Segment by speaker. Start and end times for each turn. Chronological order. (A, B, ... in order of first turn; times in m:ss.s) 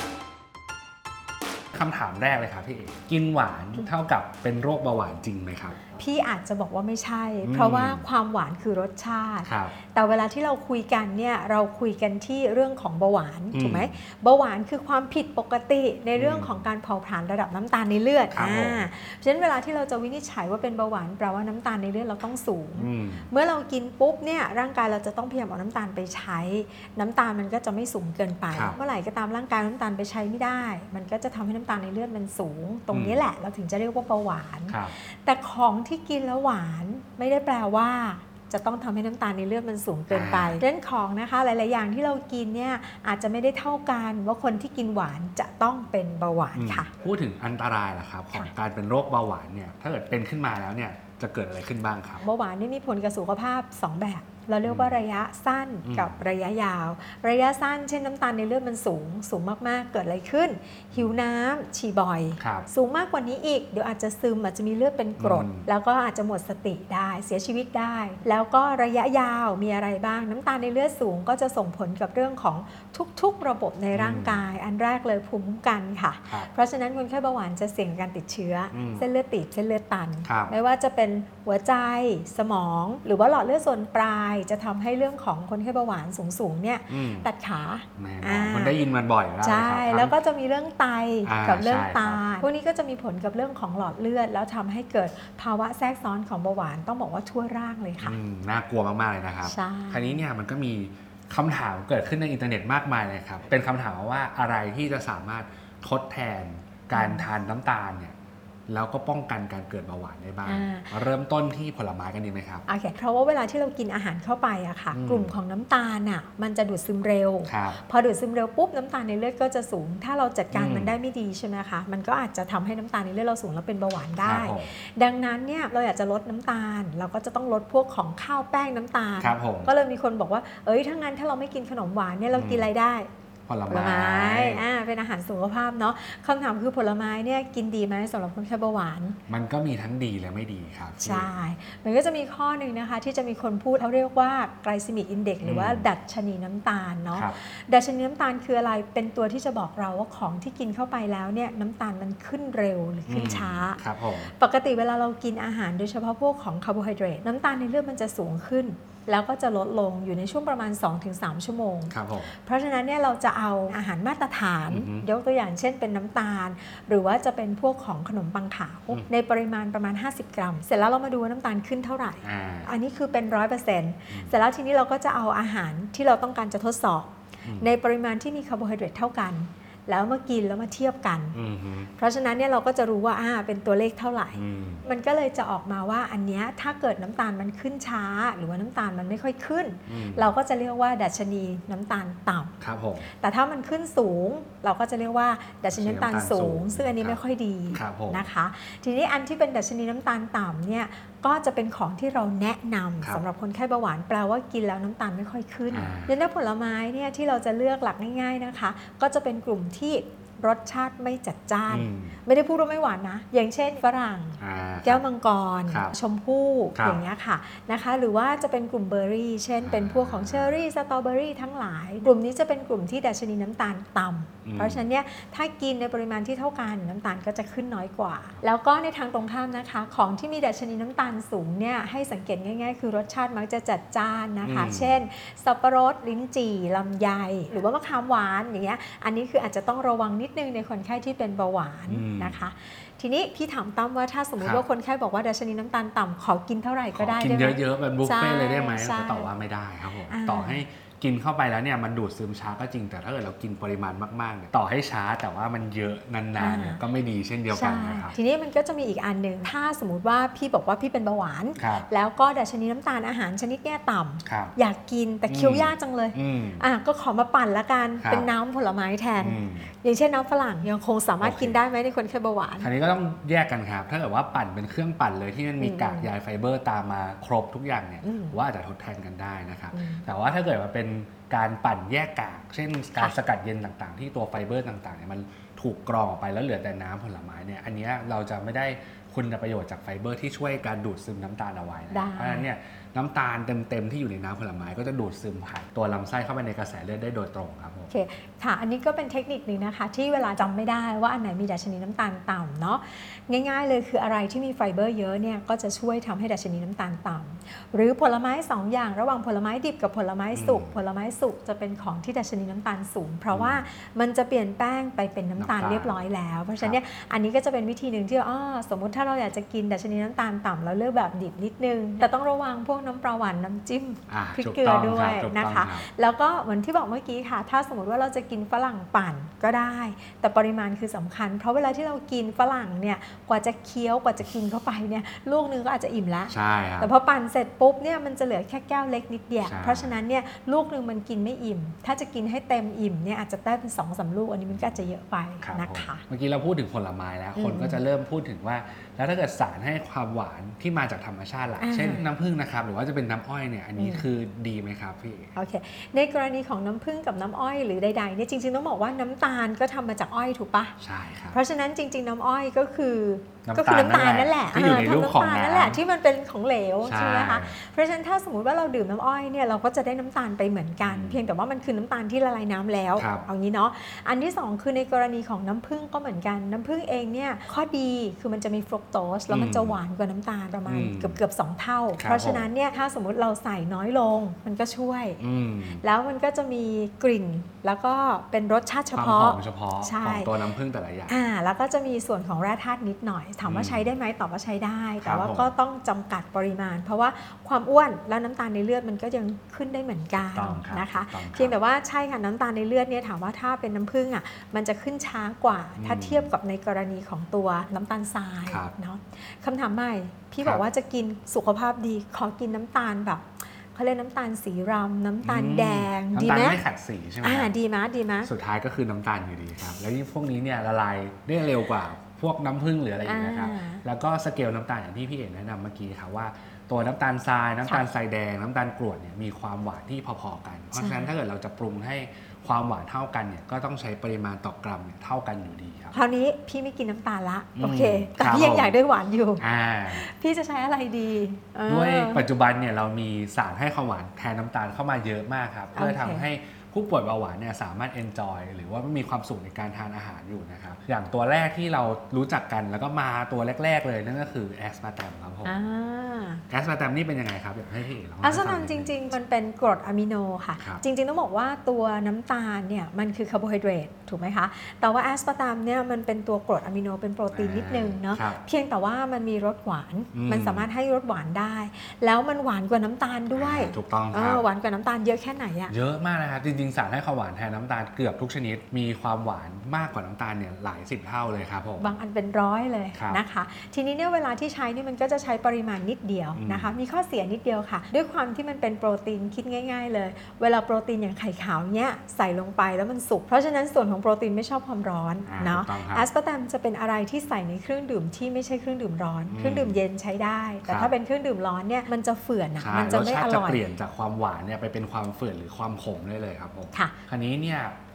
0:01.7-0:05.8 A
0:05.9-0:46.9 B
0:07.4-0:08.0 A
0:09.4-0:09.7 A
0:13.5-0:13.9 A
0:16.1-0:16.6 A
0:18.3-0:18.8 A
0:22.8-0:23.3 A
0:28.5-0:28.8 A
0:32.9-0:33.2 A
0:34.7-0:35.0 A
0:40.1-0:40.6 A
0:46.5-0:52.2 A
0:52.2-1:28.8 B
0:54.6-0:55.0 A
0:55.8-0:56.2 A
1:02.4-1:02.7 A
1:05.2-1:05.7 A
1:13.9-1:14.4 A
1:18.7-1:19.1 A
1:20.2-1:20.5 A
1:26.9-1:27.3 A
1:28.0-1:30.2 A
1:29.4-1:38.2 B
1:31.2-1:32.4 A
1:38.0-1:48.2 A
1:39.4-1:40.2 B
1:46.9-1:47.2 B
1:48.7-1:52.6 A
1:50.4-1:50.9 B
1:52.7-2:13.1 B
1:54.9-1:55.3 A
1:57.4-1:57.8 A
2:00.5-2:01.0 A
2:04.2-2:04.7 A
2:09.2-2:09.7 A
2:12.3-2:12.7 A
2:13.5-2:14.6 A
2:13.7-2:19.2 B
2:19.3-2:21.3 A
2:21.0-3:01.4 B
2:25.4-2:25.9 A
2:27.1-2:27.4 A
2:33.1-2:34.3 A
2:41.9-2:42.3 A
2:44.7-2:45.1 A
2:52.2-2:52.7 A
3:01.3-3:01.9 A
3:02.0-3:12.5 B
3:04.3-3:04.8 A
3:09.9-3:10.3 A
3:12.6-3:13.1 A
3:13.2-4:09.3 B
3:15.7-3:17.2 A
3:17.7-3:18.3 A
3:25.7-3:26.1 A
3:31.7-3:32.2 A
3:34.4-3:35.0 A
3:35.7-3:35.9 A
3:36.8-3:37.0 A
3:39.6-3:40.6 A
3:44.4-3:44.8 A
3:54.4-3:54.9 A
4:01.9-4:02.4 A
4:06.9-4:18.2 A
4:10.1-4:10.6 B
4:16.4-4:16.8 B
4:17.5-4:32.7 B
4:21.6-4:21.9 A
4:24.2-4:24.6 A
4:25.3-4:26.6 A
4:28.0-4:28.3 A
4:29.2-4:29.7 A
4:31.2-4:31.6 A
4:32.6-4:57.9 A
4:35.6-4:36.1 B
4:38.0-4:38.4 B
4:39.7-4:40.0 B
4:51.9-4:52.4 B
4:57.9-5:46.0 B
5:10.3-5:10.8 A
5:13.3-5:13.6 A
5:15.4-5:16.0 A
5:24.1-5:25.9 A
5:36.3-5:36.9 A
5:39.4-5:40.0 A
5:44.5-5:44.8 A
5:45.4-5:55.3 A
5:47.4-5:47.8 B
5:51.6-5:52.0 B
5:53.8-5:54.0 B
5:55.3-6:00.7 B
6:00.8-6:01.4 A
6:01.3-6:25.2 B
6:03.4-6:05.8 A
6:06.8-6:07.6 A
6:10.8-6:11.2 A
6:13.0-6:13.3 A
6:19.3-6:19.8 A
6:20.7-6:21.2 A
6:22.0-6:22.5 A
6:25.2-6:25.8 A
6:25.8-6:30.3 B
6:28.9-6:31.1 A
6:31.1-6:56.6 B
6:33.4-6:33.9 A
6:35.0-6:35.5 A
6:40.2-6:41.5 A
6:45.8-6:46.3 A
6:48.5-6:48.7 A
6:55.2-6:57.5 A
6:57.2-6:58.3 B
6:58.2-7:16.0 A
7:03.0-7:03.8 B
7:10.7-7:11.1 B
7:15.9-7:22.2 B
7:17.6-7:18.8 A
7:19.4-7:20.0 A
7:21.7-7:35.5 A
7:25.7-7:26.2 B
7:35.4-7:36.4 B
7:36.5-7:38.9 A
7:38.2-7:55.7 B
7:47.3-7:48.4 A
7:50.1-7:50.7 A
7:53.3-7:54.4 A
7:55.7-8:01.9 A
8:01.8-8:23.6 B
8:02.9-8:03.2 A
8:06.4-8:06.7 A
8:15.2-8:16.1 A
8:19.3-8:19.8 A
8:20.7-8:20.9 A
8:22.6-8:27.8 A